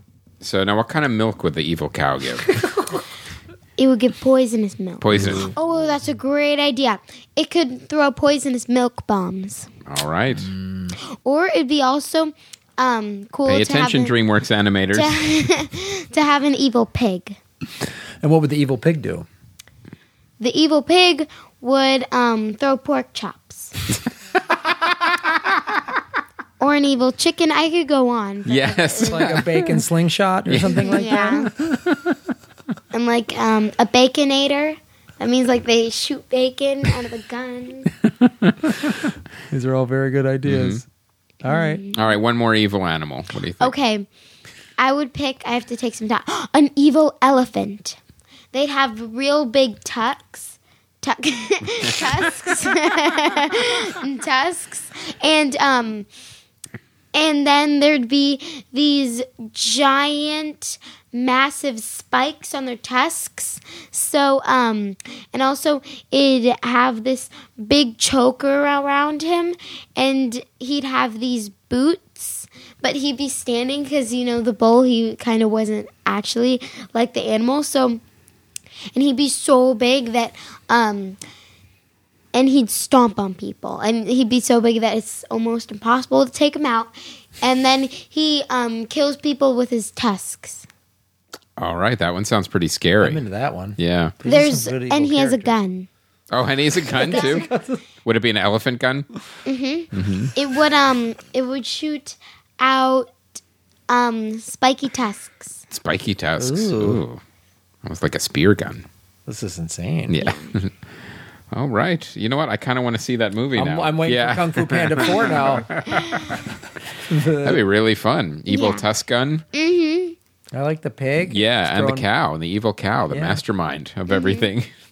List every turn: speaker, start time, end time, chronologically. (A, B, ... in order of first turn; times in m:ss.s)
0:00.4-0:02.6 A
0:02.5-0:02.8 B
0:03.8-0:09.7 B
0:05.0-0:05.5 A
0:05.1-0:05.5 C
0:09.8-0:10.5 A
0:10.3-0:10.9 C
0:11.2-0:14.1 B
0:13.4-0:15.1 A
0:14.9-0:17.4 B
0:18.2-0:19.2 C
0:20.4-0:23.8 B
0:24.9-0:25.8 A
0:26.6-0:29.4 B
0:28.4-0:29.8 A
0:29.0-0:31.5 C
0:30.4-0:30.9 A
0:30.7-0:31.5 B
0:31.7-0:32.0 A
0:32.9-0:37.9 B
0:38.2-0:38.9 A
0:39.5-0:40.8 C
0:40.4-0:40.8 A
0:41.4-0:41.8 C
0:41.5-0:42.1 B
0:41.9-0:43.7 A
0:43.6-0:44.1 B
0:44.8-0:48.0 B
0:48.5-0:56.1 B
0:57.1-1:18.0 B
1:18.9-1:21.2 B
1:22.3-1:30.7 B
1:31.6-1:33.2 A
1:33.0-1:35.5 C
1:33.8-1:34.2 A
1:34.2-1:35.9 B
1:36.3-1:37.5 A
1:36.9-1:37.8 C
1:37.0-1:37.4 B
1:38.0-1:39.1 A
1:39.4-1:43.1 B
1:39.9-1:40.3 A
1:43.9-1:45.6 B
1:45.7-1:47.2 A
1:46.4-1:47.0 C
1:47.8-1:48.8 A
1:49.3-1:50.2 C
1:50.1-1:50.7 A
1:50.2-1:50.5 B
1:51.5-1:56.4 A
1:53.5-1:55.8 C
1:57.0-1:57.6 C
1:57.4-1:59.4 A
1:58.5-1:58.8 B
1:59.5-2:00.2 B
2:00.5-2:02.0 C
2:01.3-2:04.7 A
2:03.1-2:03.4 C
2:04.1-2:04.4 B